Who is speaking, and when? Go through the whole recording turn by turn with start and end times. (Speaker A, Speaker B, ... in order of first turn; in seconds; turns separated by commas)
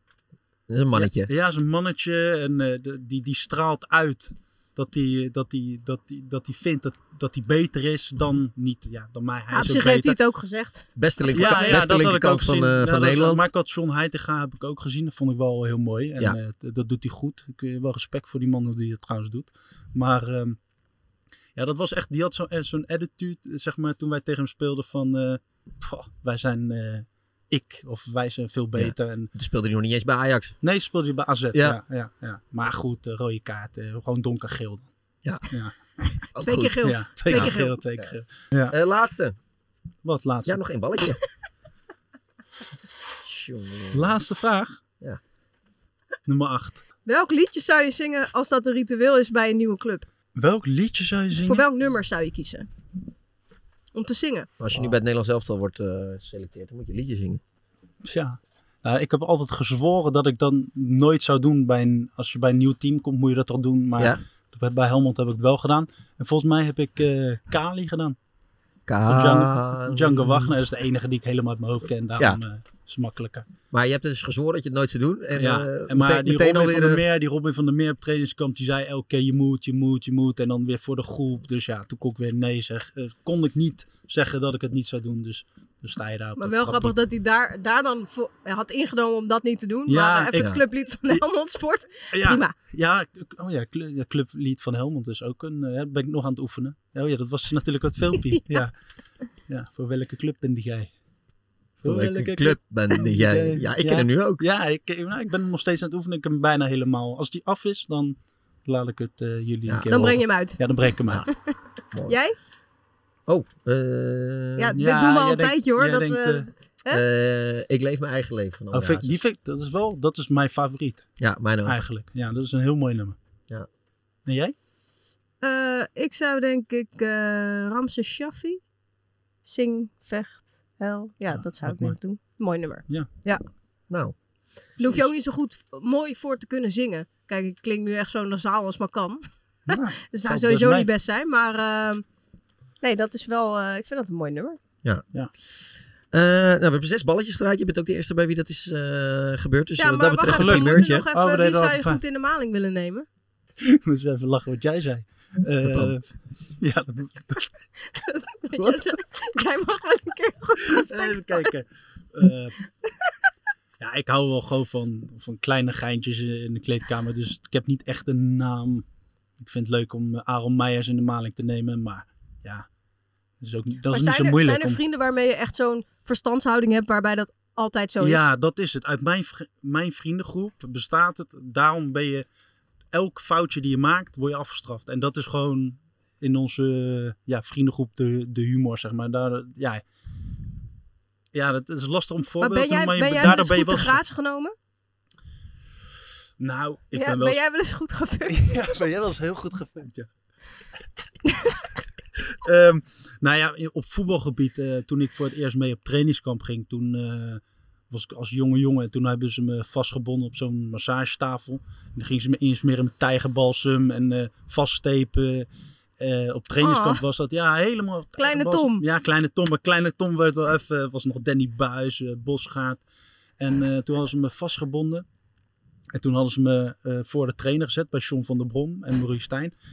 Speaker A: 0.7-1.3, Speaker B: 0.9-10.2, Speaker C: 9.5-11.9, Speaker A: 11.0-13.5, Speaker B: 11.3-20.6, Speaker B: 21.6-29.3, Speaker A: 28.8-30.6, Speaker B: 30.6-34.9, Speaker A: 31.5-31.8, Speaker B: 35.5-35.8, Speaker A: 36.3-38.1, Speaker C: 36.4-37.8, Speaker B: 36.8-38.8, Speaker A: 38.7-39.4, Speaker B: 40.0-40.6, Speaker A: 40.5-41.2, Speaker A: 43.2-44.2, Speaker B: 43.9-44.8, Speaker B: 46.3-46.8, Speaker C: 47.1-50.1, Speaker B: 50.4-51.6, Speaker C: 51.4-52.7, Speaker C: 53.9-54.5, Speaker A: 54.6-57.4, Speaker B: 58.0-68.2, Speaker A: 68.9-70.5, Speaker B: 69.1-73.5, Speaker A: 73.7-77.0, Speaker B: 75.4-87.0, Speaker C: 86.4-92.5, Speaker B: 89.9-90.5, Speaker B: 92.1-98.7, Speaker B: 99.5-100.9, Speaker B: 101.8-111.3, Speaker A: 101.8-104.4, Speaker C: 109.9-110.6, Speaker C: 111.3-111.5, Speaker C: 112.1-112.4, Speaker A: 113.3-114.8, Speaker C: 114.6-117.0, Speaker B: 114.8-116.5, Speaker A: 116.9-119.2, Speaker B: 118.7-121.1, Speaker A: 121.2-121.8, Speaker B: 121.6-123.2, Speaker B: 124.3-124.5, Speaker C: 125.4-128.6, Speaker C: 129.5-133.4, Speaker B: 131.3-132.0, Speaker A: 133.9-134.2, Speaker C: 134.8-139.2, Speaker B: 139.7-140.9, Speaker C: 140.0-142.0, Speaker C: 142.8-144.6, Speaker A: 146.1-151.1, Speaker C: 149.8-153.1, Speaker B: 150.3-152.0, Speaker B: 153.6-157.7, Speaker A: 155.6-155.9, Speaker C: 157.9-161.5, Speaker B: 158.6-158.8, Speaker B: 160.7-162.6, Speaker B: 163.8-168.8, Speaker B: 169.4-172.7, Speaker B: 173.4-174.8, Speaker C: 173.9-178.3, Speaker B: 178.0-182.3, Speaker B: 182.9-189.8, Speaker B: 191.3-194.0, Speaker C: 192.4-194.5, Speaker B: 196.4-197.4, Speaker C: 196.9-198.6, Speaker B: 198.3-200.1, Speaker C: 201.3-201.6, Speaker B: 202.3-215.5, Speaker B: 216.0-222.8, Speaker C: 216.6-217.0, Speaker C: 218.2-218.8, Speaker B: 223.4-225.1, Speaker B: 225.9-229.5